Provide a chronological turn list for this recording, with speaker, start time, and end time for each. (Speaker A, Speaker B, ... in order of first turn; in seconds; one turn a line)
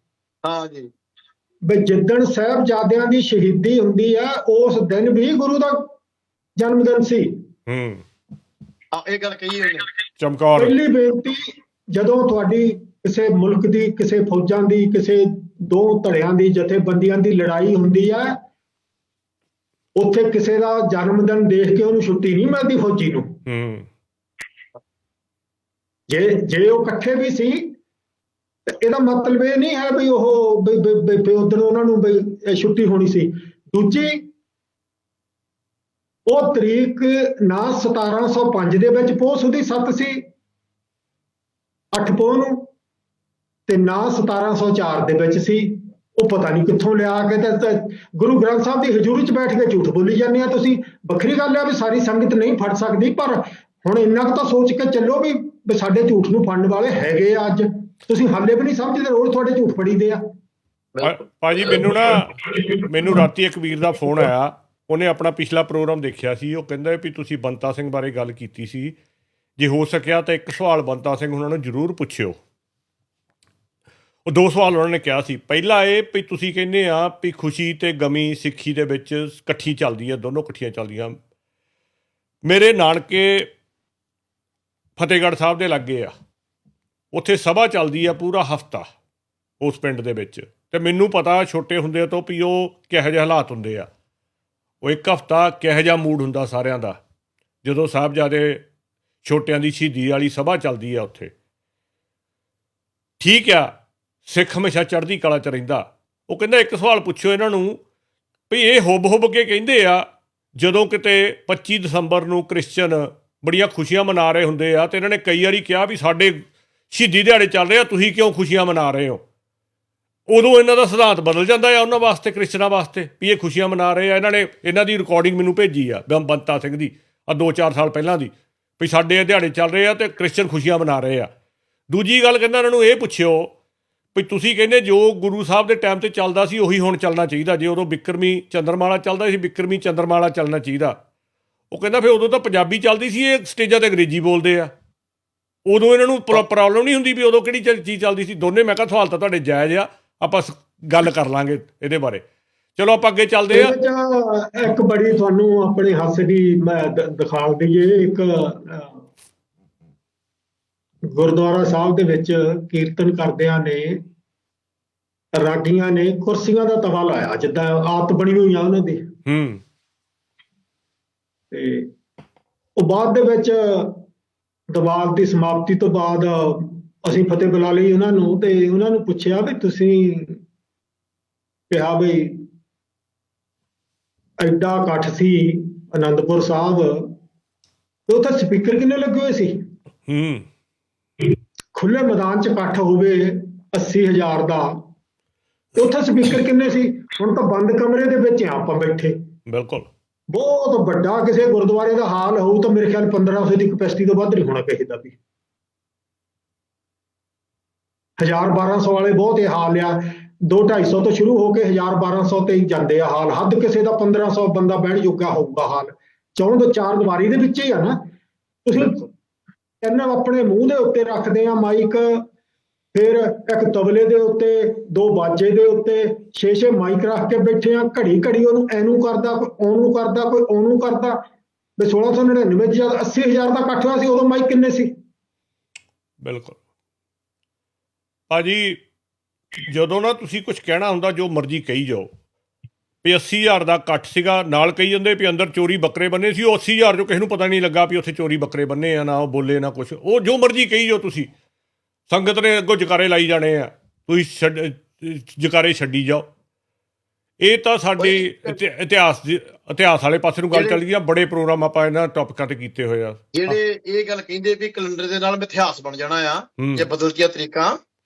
Speaker A: 0.4-0.9
Speaker B: 1.6-5.8
Speaker B: 6.6-7.4
Speaker C: 7.7-8.0
Speaker A: 8.9-9.9
Speaker C: 10.2-10.8
Speaker B: 10.6-11.4
Speaker B: 11.9-18.4
Speaker B: 19.9-23.4
Speaker C: 23.4-23.9
Speaker B: 26.1-27.7
Speaker B: 28.7-34.3
Speaker B: 36.2-40.2
Speaker B: 41.9-42.7
Speaker B: 43.7-60.2
Speaker C: 61.0-68.9
Speaker C: 69.6-72.4
Speaker C: 74.3-81.2
Speaker C: 82.5-83.5
Speaker C: 85.0-86.1
Speaker C: 87.1-88.8
Speaker C: 89.6-93.9
Speaker C: 94.8-97.0
Speaker C: 97.6-98.7
Speaker C: 99.2-101.3
Speaker C: 103.2-103.7
Speaker C: 104.2-107.8
Speaker C: 108.5-119.2
Speaker C: 120.3-131.3
Speaker C: 131.9-133.5
Speaker C: 134.1-141.0
Speaker C: 141.7-144.7
Speaker C: 145.7-152.2
Speaker C: 152.8-153.8
Speaker B: 153.5-159.0
Speaker B: 161.1-164.0
Speaker B: 165.3-169.1
Speaker C: 169.3-169.6
Speaker B: 171.5-171.9
Speaker B: 172.8-174.0
Speaker B: 174.7-180.4
Speaker B: 181.7-182.4
Speaker B: 184.4-187.1
Speaker B: 188.1-189.6
Speaker C: 190.1-190.4
Speaker B: 191.7-194.8
Speaker B: 195.8-199.2
Speaker C: 199.5-199.9
Speaker B: 200.3-205.2
Speaker B: 208.2-218.0
Speaker B: 218.6-219.1
Speaker B: 219.8-222.3
Speaker B: 222.9-231.2
Speaker B: 231.8-234.9
Speaker C: 236.2-236.6
Speaker C: 238.3-238.8
Speaker C: 239.6-242.1
Speaker C: 243.0-251.3
Speaker C: 252.1-256.2
Speaker C: 257.4-263.6
Speaker A: 258.0-258.6
Speaker A: 260.5-260.8
Speaker A: 263.3-267.7
Speaker C: 266.6-266.9